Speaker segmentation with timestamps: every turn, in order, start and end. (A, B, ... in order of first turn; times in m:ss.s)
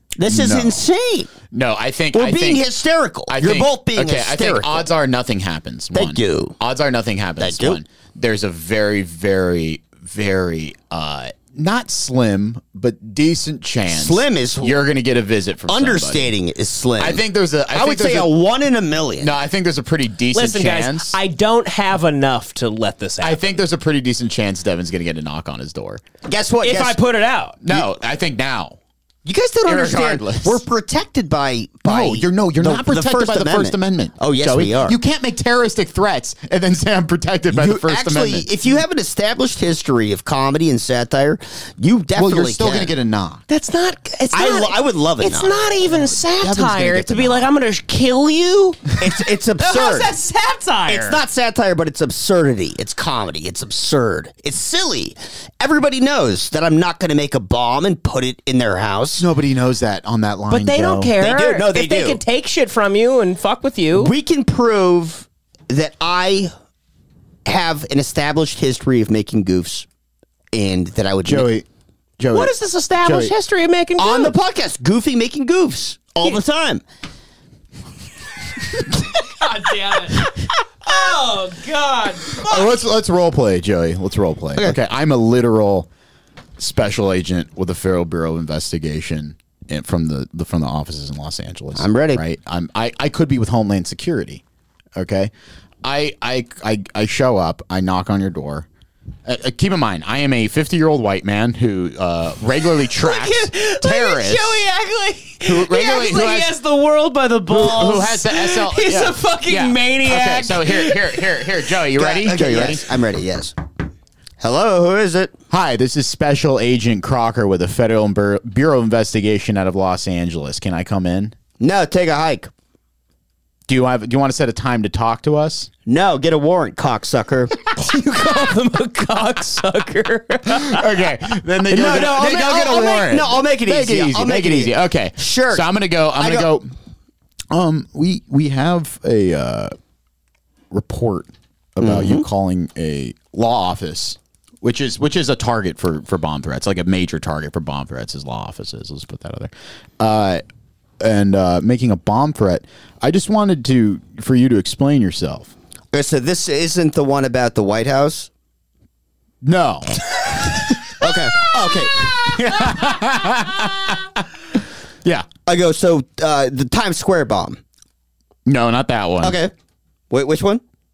0:00.2-0:01.3 A
0:00.3-0:00.8 B
0:01.5-0:02.6 B
0:02.1-0:04.9 A
0:03.3-0:16.3 B
0:05.9-0:06.6 A
0:07.4-0:07.8 A
0:13.9-0:14.9 A
0:15.7-0:19.3 A
0:17.0-0:18.4 B
0:19.2-0:21.2 B
0:20.3-0:23.4 C
0:23.2-0:26.0 B
0:26.3-0:27.0 A
0:26.6-0:27.6 C
0:27.6-0:28.8 B
0:29.2-0:35.0 A
0:29.6-0:30.6 B
0:31.8-0:38.5 B
0:37.5-0:42.9 A
0:42.2-0:43.4 B
0:43.5-0:49.0 C
0:44.3-0:45.6 A
0:46.4-0:47.4 B
0:49.0-0:50.1 A
0:49.6-0:51.2 C
0:50.9-0:59.3 A
0:59.2-1:01.1 B
1:00.5-1:04.1 C
1:01.2-1:02.2 A
1:03.9-1:06.5 A
1:07.5-1:09.9 A
1:10.5-1:11.5 A
1:11.2-1:11.6 B
1:12.2-1:13.3 B
1:12.3-1:14.4 C
1:14.0-1:16.8 A
1:19.4-1:20.3 C
1:20.8-1:22.8 C
1:22.4-1:25.9 B
1:26.6-1:34.4 B
1:31.8-1:32.2 A
1:35.0-1:35.3 B
1:35.8-1:38.7 B
1:39.3-1:44.7 B
1:43.0-1:51.5 C
1:45.4-1:46.6 B
1:47.5-1:52.8 B
1:51.9-1:53.6 A
1:54.4-1:55.4 A
1:55.5-2:01.3 B
2:01.6-2:02.5 A
2:03.7-2:05.7 B
2:05.9-2:07.5 A
2:07.7-2:10.9 C
2:10.6-2:16.7 B
2:11.7-2:16.5 A
2:17.5-2:19.7 B
2:20.7-2:30.4 B
2:21.8-2:22.3 A
2:31.0-2:35.6 B
2:35.9-2:38.3 A
2:39.4-2:44.3 B
2:41.0-2:42.6 A
2:45.5-2:47.6 A
2:48.5-2:49.4 B
2:49.2-2:49.5 A
2:50.1-2:50.6 A